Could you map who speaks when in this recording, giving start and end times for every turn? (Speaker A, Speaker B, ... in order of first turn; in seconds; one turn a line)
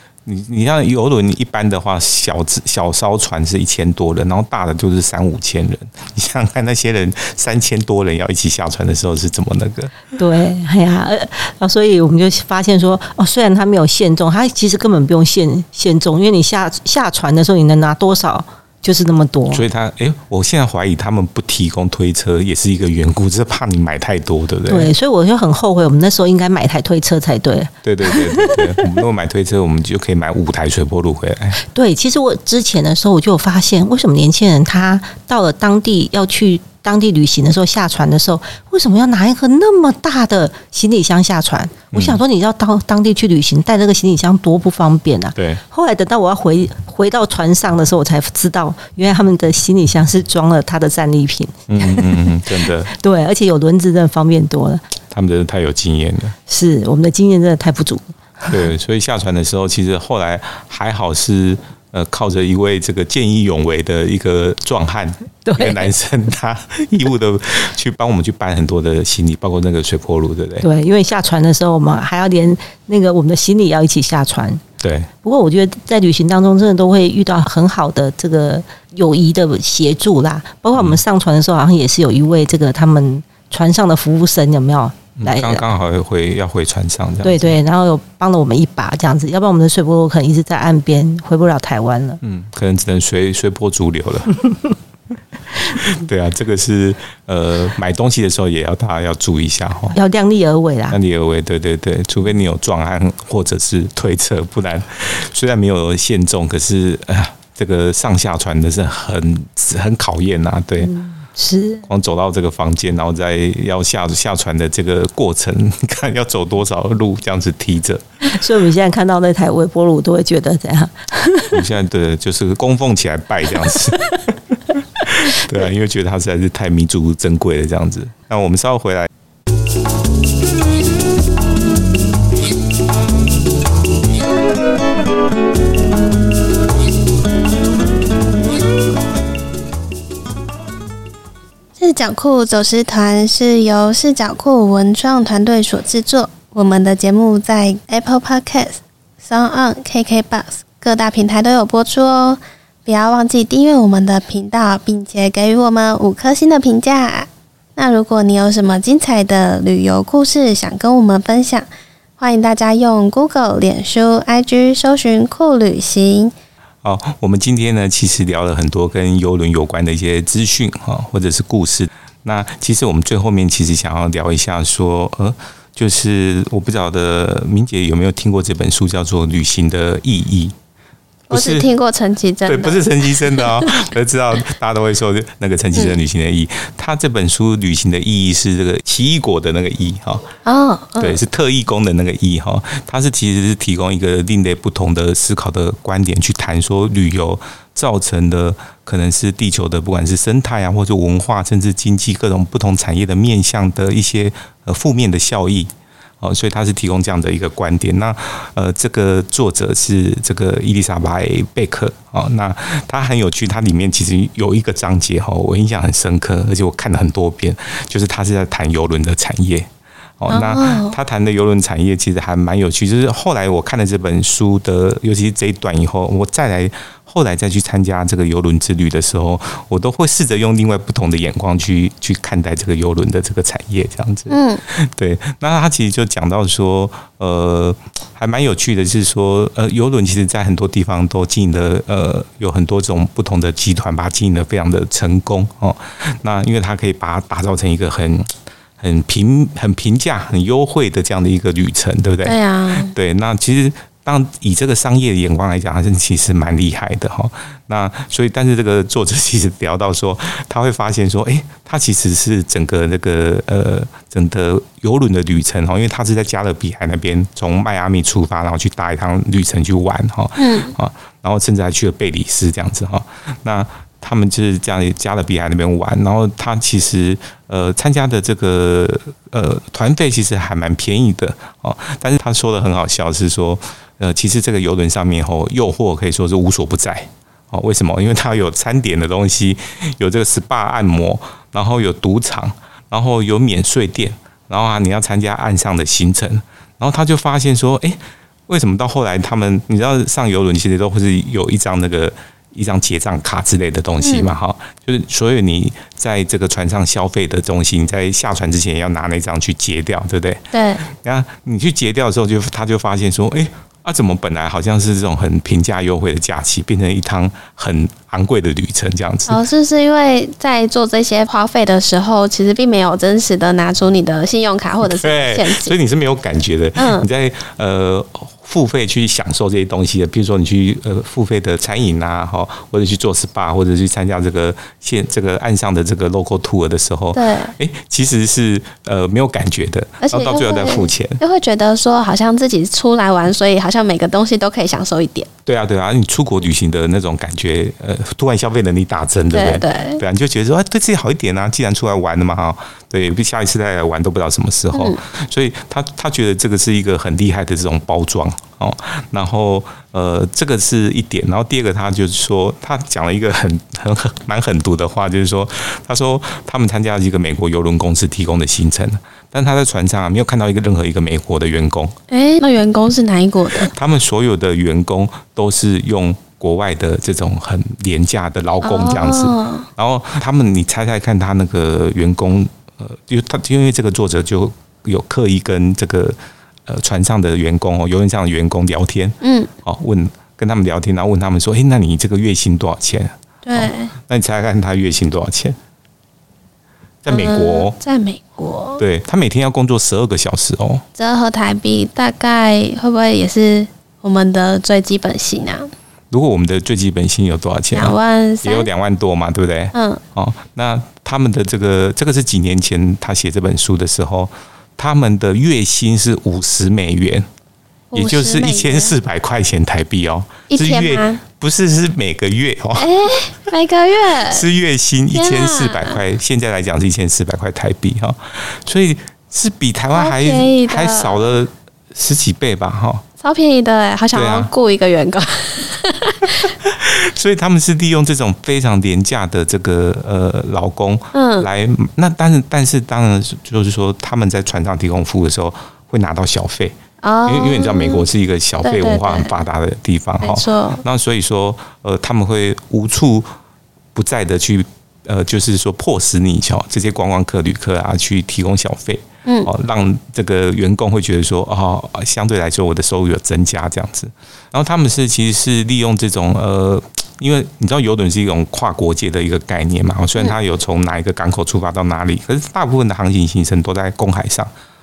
Speaker A: 0.2-10.0
Speaker B: 10.2-19.6
Speaker A: 19.5-24.9
Speaker B: 24.7-28.8
Speaker A: 27.8-31.6
Speaker B: 31.6-54.8
Speaker A: 41.9-42.2
Speaker A: 45.4-45.6
Speaker A: 51.7-52.9
Speaker A: 55.1-56.3
Speaker B: 56.5-58.6
Speaker A: 58.5-70.7
Speaker B: 65.4-65.9
Speaker B: 70.6-74.6
Speaker A: 74.8-75.1
Speaker B: 75.2-85.6
Speaker A: 80.7-81.0
Speaker A: 85.2-87.5
Speaker B: 87.2-92.2
Speaker A: 92.2-94.4
Speaker A: 95.7-100.0
Speaker B: 99.9-101.0
Speaker A: 100.9-110.9
Speaker B: 110.8-111.8
Speaker A: 111.9-118.0
Speaker B: 118.2-121.6
Speaker A: 121.5-124.0
Speaker A: 125.0-129.1
Speaker C: 141.8-161.7
Speaker C: 162.2-166.3
Speaker A: 166.8-180.5
Speaker C: 181.3-183.7
Speaker A: 181.3-181.7
Speaker A: 182.4-190.3
Speaker C: 190.4-191.2
Speaker A: 191.0-319.4
Speaker C: 220.3-220.9
Speaker C: 234.3-234.6
Speaker C: 252.2-252.9
Speaker C: 270.4-270.7
Speaker C: 304.0-304.3
Speaker C: 310.5-310.8
Speaker C: 319.3-325.7
Speaker A: 324.8-341.2
Speaker C: 326.8-327.1
Speaker C: 337.1-337.5
Speaker C: 340.0-345.3
Speaker A: 345.4-371.9
Speaker C: 349.3-350.0
Speaker C: 372.1-373.7
Speaker A: 373.7-395.6
Speaker C: 378.6-379.7
Speaker C: 389.2-389.5
Speaker C: 393.4-393.9
Speaker A: 397.0-397.8
Speaker C: 397.1-398.8
Speaker A: 398.8-400.8
Speaker C: 401.0-405.7
Speaker A: 406.1-417.3
Speaker C: 407.7-408.7
Speaker C: 409.7-410.0
Speaker C: 417.9-418.9
Speaker A: 417.9-422.9
Speaker C: 420.5-421.2
Speaker C: 422.8-424.4
Speaker A: 424.3-433.0
Speaker C: 425.1-426.0
Speaker C: 429.9-431.3
Speaker C: 433.2-436.5
Speaker A: 434.1-434.5
Speaker A: 436.6-453.3
Speaker C: 441.1-441.5
Speaker C: 447.0-448.1
Speaker C: 448.6-449.3
Speaker C: 450.2-450.8
Speaker A: 453.9-474.5
Speaker C: 459.2-459.5